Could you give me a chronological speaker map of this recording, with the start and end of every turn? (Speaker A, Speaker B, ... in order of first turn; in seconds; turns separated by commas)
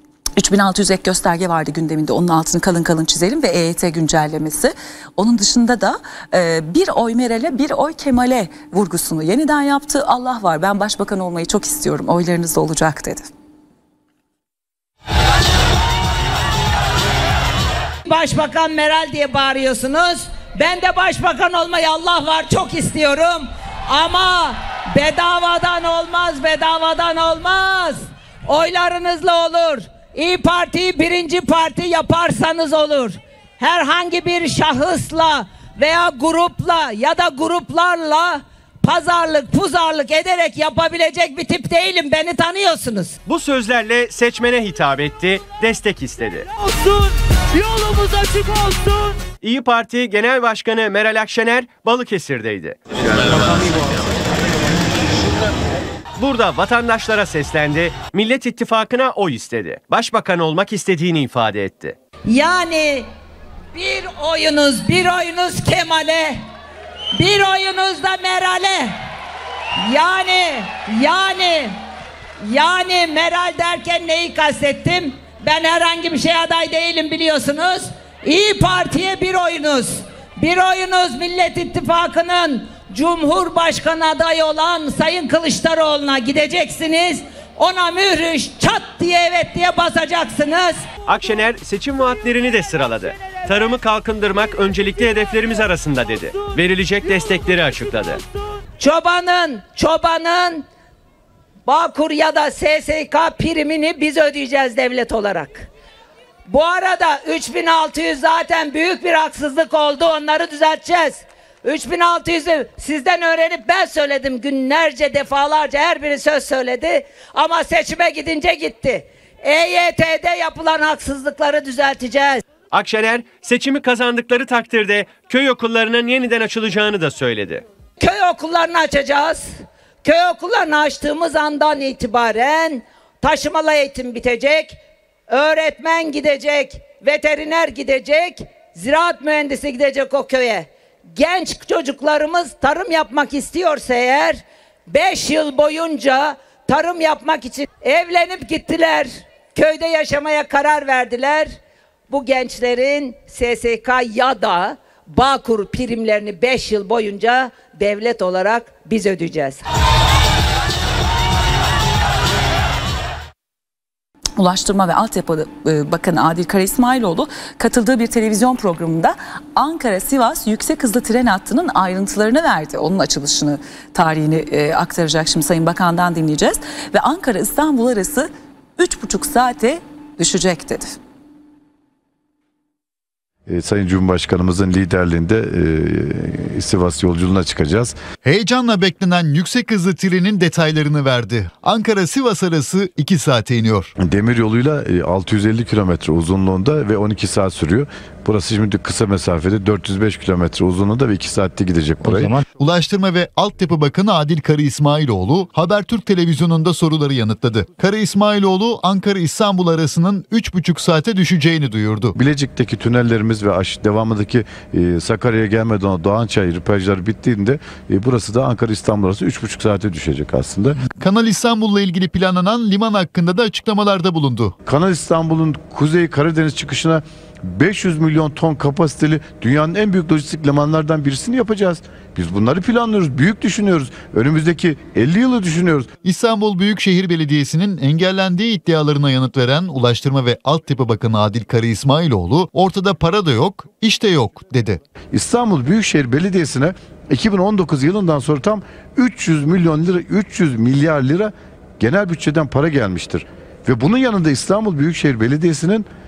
Speaker A: 0.4-13.3, Speaker B: 18.1-43.1, Speaker C: 43.2-46.5, Speaker C: 47.6-52.8, Speaker C: 56.2-62.0, Speaker B: 62.3-63.1, Speaker B: 63.7-66.4, Speaker B: 67.1-68.9, Speaker B: 69.8-71.8, Speaker B: 72.4-90.8, Speaker C: 91.0-98.2, Speaker B: 98.8-100.6, Speaker B: 101.7-105.7, Speaker B: 106.5-122.4, Speaker C: 122.7-127.6, Speaker B: 128.0-129.4, Speaker B: 130.0-134.8, Speaker B: 135.3-151.5, Speaker B: 152.1-159.6, Speaker A: 164.4-180.9, Speaker D: 183.5-187.9, Speaker E: 188.2-193.9, Speaker D: 194.0-202.3, Speaker E: 202.5-212.2, Speaker D: 212.1-220.8, Speaker E: 220.9-224.5, Speaker D: 224.7-235.9, Speaker E: 236.0-244.8, Speaker D: 245.1-255.9